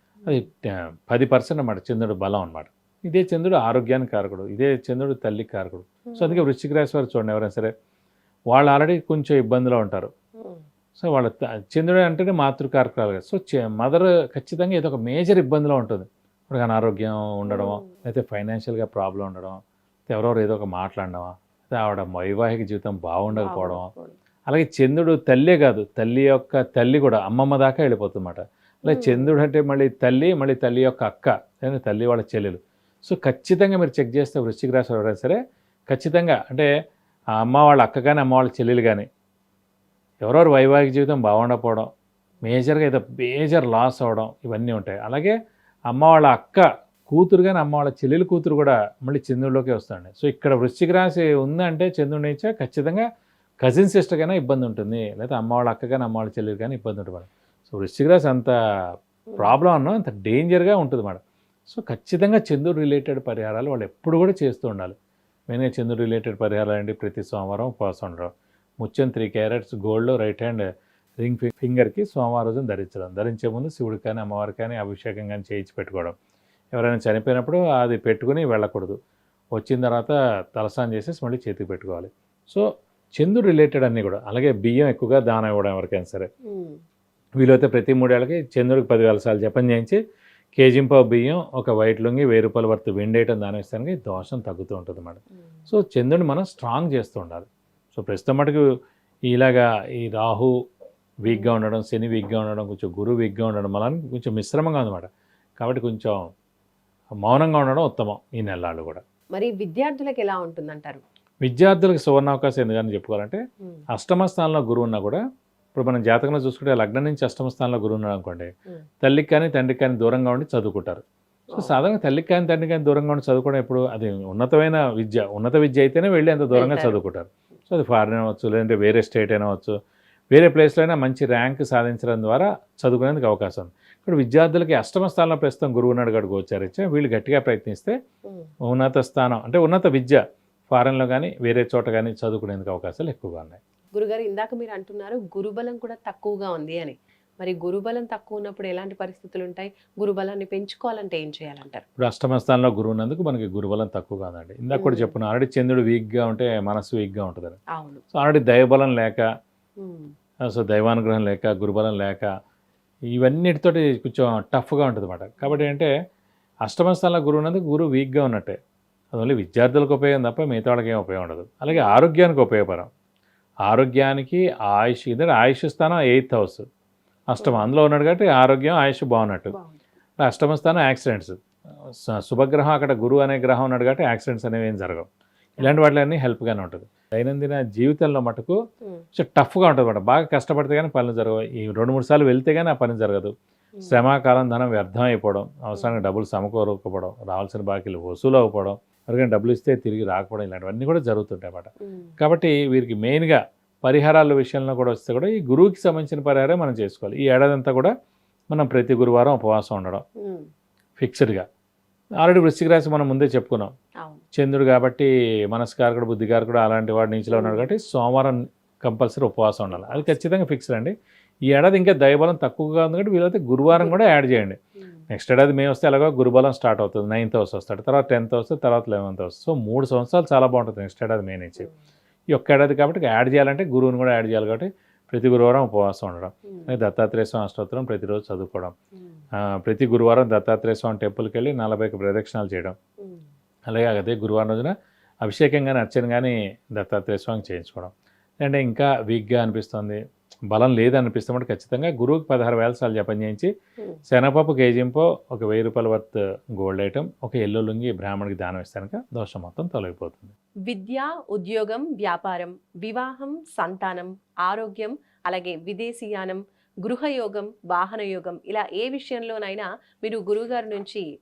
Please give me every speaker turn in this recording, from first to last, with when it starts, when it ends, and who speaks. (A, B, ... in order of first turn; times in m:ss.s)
0:00.3-0:07.7 A
0:06.1-0:06.5 B
0:08.5-0:10.1 A
0:11.0-0:19.6 A
0:17.5-0:17.9 B
0:20.1-0:23.9 A
0:23.4-0:24.2 B
0:24.5-0:35.4 A
0:28.9-0:29.4 B
0:35.9-0:36.7 A
0:37.4-0:39.1 A
0:40.2-0:41.9 A
0:42.4-0:45.4 A
0:45.9-0:53.0 A
0:53.6-1:04.9 A
1:05.5-1:10.7 A
1:11.2-1:16.1 A
1:16.7-1:19.0 A
1:19.6-1:26.3 A
1:26.5-1:26.8 B
1:27.4-1:30.0 A
1:30.6-1:38.7 A
1:39.3-1:40.5 A
1:41.2-1:46.2 A
1:41.3-1:41.5 B
1:47.2-1:49.0 A
1:49.4-1:51.0 B
1:51.4-1:53.4 A
1:53.9-1:55.2 A
1:55.8-1:58.5 A
1:59.0-2:01.0 A
2:01.5-2:01.8 B
2:01.5-2:09.8 A
2:06.5-2:07.0 B
2:10.3-2:18.0 A
2:18.7-2:23.6 A
2:23.9-2:31.8 B
2:32.0-2:37.6 A
2:34.7-2:35.2 B
2:37.7-2:38.0 B
2:38.1-2:39.3 A
2:39.8-2:40.1 B
2:40.4-2:42.3 A
2:43.2-2:45.9 A
2:45.4-2:45.7 B
2:46.6-2:48.6 A
2:49.1-2:52.9 A
2:51.7-2:52.0 B
2:53.7-2:56.6 A
2:57.3-2:59.5 A
2:57.4-2:57.8 B
2:59.5-2:59.8 B
3:00.2-3:05.1 A
3:05.6-3:08.6 A
3:09.2-3:13.3 A
3:13.8-3:14.0 B
3:13.8-3:27.9 A
3:15.8-3:16.1 B
3:21.8-3:22.1 B
3:28.5-3:30.0 A
3:30.2-3:30.5 B
3:31.0-3:31.4 A
3:32.2-3:33.7 A
3:34.3-3:40.9 A
3:37.3-3:37.7 B
3:39.7-3:40.2 B
3:41.5-3:44.6 A
3:43.7-3:44.0 B
3:44.8-3:45.0 B
3:45.1-3:51.7 A
3:52.3-3:58.7 A
3:56.5-3:56.8 B
3:59.4-4:02.8 A
4:03.7-4:04.7 A
4:05.2-4:13.5 A
4:14.1-4:20.3 A
4:20.7-4:31.0 B